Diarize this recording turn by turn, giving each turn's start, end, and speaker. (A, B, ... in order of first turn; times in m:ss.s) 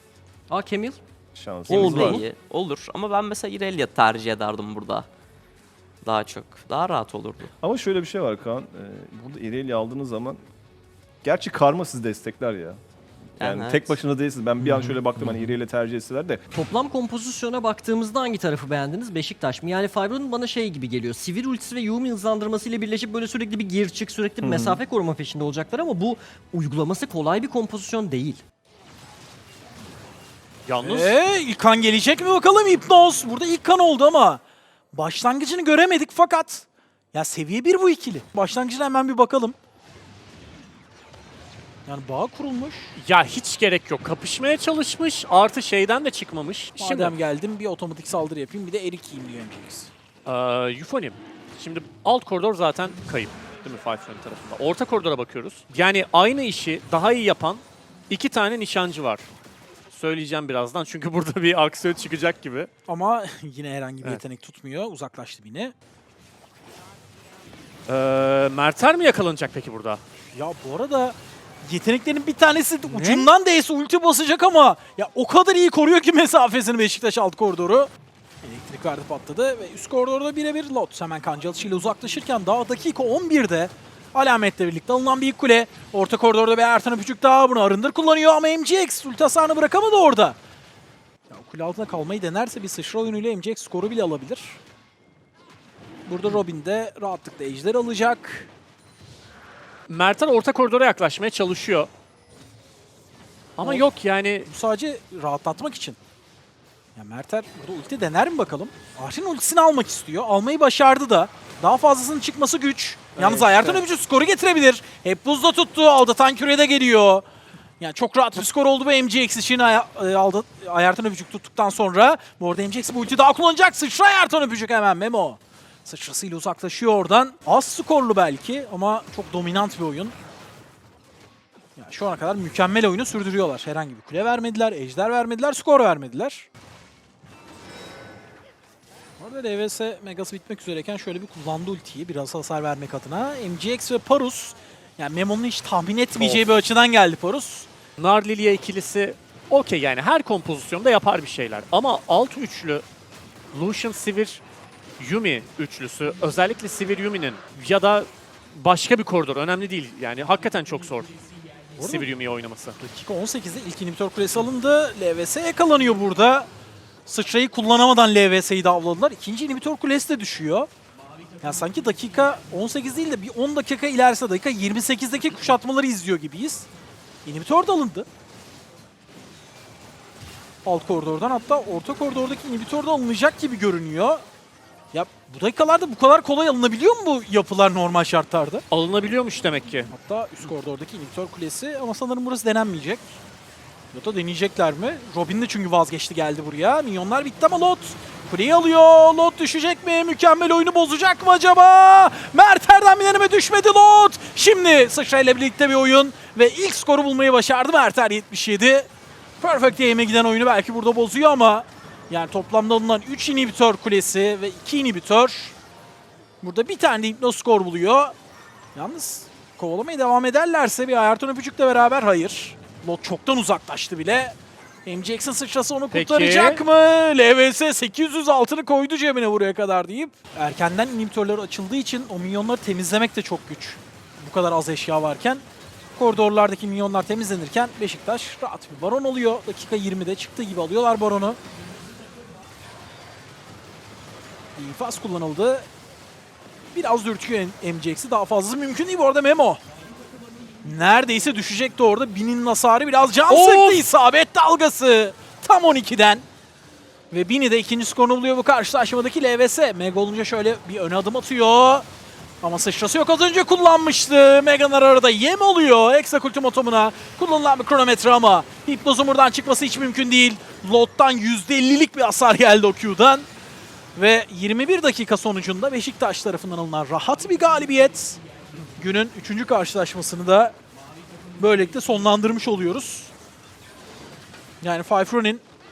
0:00.5-0:01.0 A
0:01.3-0:02.2 B
0:01.7-0:05.1 C
0:01.7-0:02.2 A
0:06.0-0:07.5 C
0:07.6-0:10.4 B
0:11.2-0:12.8 B
0:13.4-0:16.4 B
0:13.4-0:14.0 C
0:14.6-0:15.5 A
0:16.5-0:28.4 A
0:24.4-0:24.8 B
0:30.6-0:31.2 D
0:30.8-0:34.4 E
0:34.9-0:39.6 E
0:41.9-0:42.9 E
0:43.0-0:47.1 D
0:46.8-0:49.9 E
0:50.2-0:59.3 D
0:59.9-1:02.7 D
1:02.9-1:05.7 E
1:07.9-1:10.0 D
1:10.3-1:17.9 E
1:12.8-1:13.3 D
1:18.4-1:30.4 E
1:31.3-1:34.6 E
1:36.0-1:38.5 E
1:39.9-1:41.9 D
1:43.6-1:44.5 D
1:44.5-1:46.0 E
1:47.0-1:57.2 E
1:53.1-1:53.8 D
1:57.8-2:10.1 E
2:11.8-2:16.5 E
2:19.2-2:27.7 E
2:26.2-2:26.4 D
2:28.0-2:32.8 D
2:33.5-2:34.4 D
2:35.0-2:41.1 D
2:41.8-2:42.1 E
2:41.8-2:42.8 D
2:42.8-2:46.5 E
2:47.1-2:50.7 E
2:51.4-2:56.7 E
2:57.2-2:58.1 E
3:00.6-3:04.2 E
3:04.9-3:08.6 E
3:08.7-3:09.9 D
3:09.9-3:13.2 E
3:13.9-3:28.9 E
3:29.4-3:35.6 E
3:36.4-3:38.1 E
3:38.7-3:55.4 E
3:45.9-3:46.6 D
3:56.0-4:01.4 E
4:04.6-4:05.6 E
4:06.7-4:09.6 E
4:10.6-4:16.2 E
4:13.3-4:13.8 D
4:17.1-4:21.8 E
4:22.4-4:33.3 E
4:34.0-4:38.2 E
4:38.8-4:40.6 E
4:41.4-4:43.1 E
4:44.6-4:45.4 E